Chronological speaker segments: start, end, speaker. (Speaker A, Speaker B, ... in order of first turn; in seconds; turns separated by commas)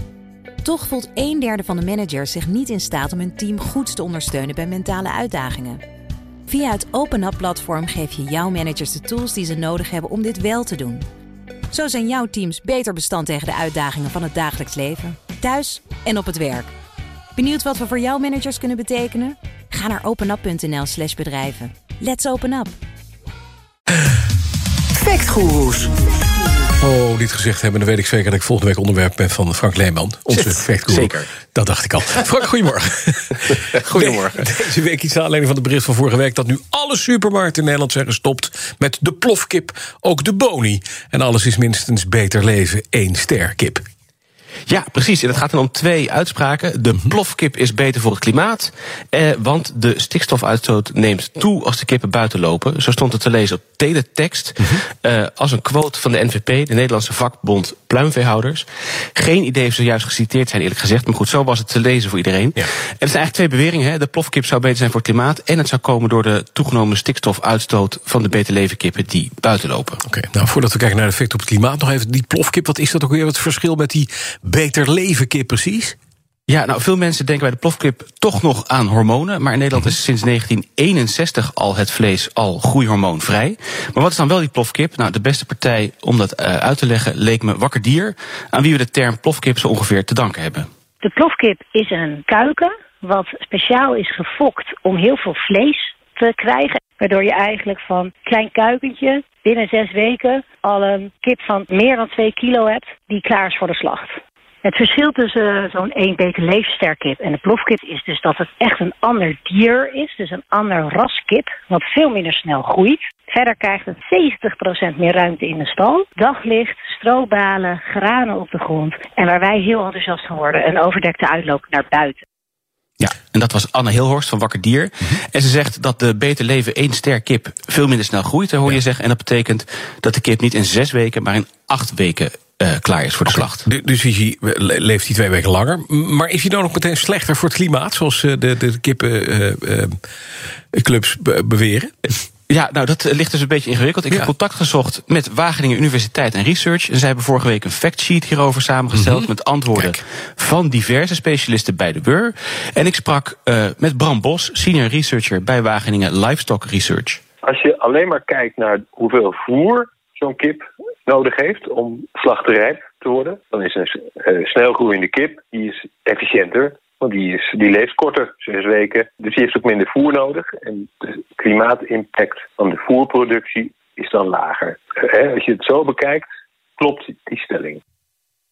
Speaker A: 0.6-5.8, Speaker A: 6.5-11.0, Speaker A: 11.7-16.7, Speaker A: 17.3-22.7, Speaker B: 26.8-43.8, Speaker C: 30.3-31.3, Speaker C: 33.5-34.6, Speaker C: 44.7-70.0, Speaker B: 70.0-76.0, Speaker C: 76.5-90.7, Speaker D: 91.0-122.2, Speaker C: 123.0-133.6, Speaker B: 133.3-140.0, Speaker B: 140.7-142.2, Speaker C: 142.5-157.2, Speaker B: 148.9-149.3, Speaker E: 157.4-176.2, Speaker E: 176.8-177.8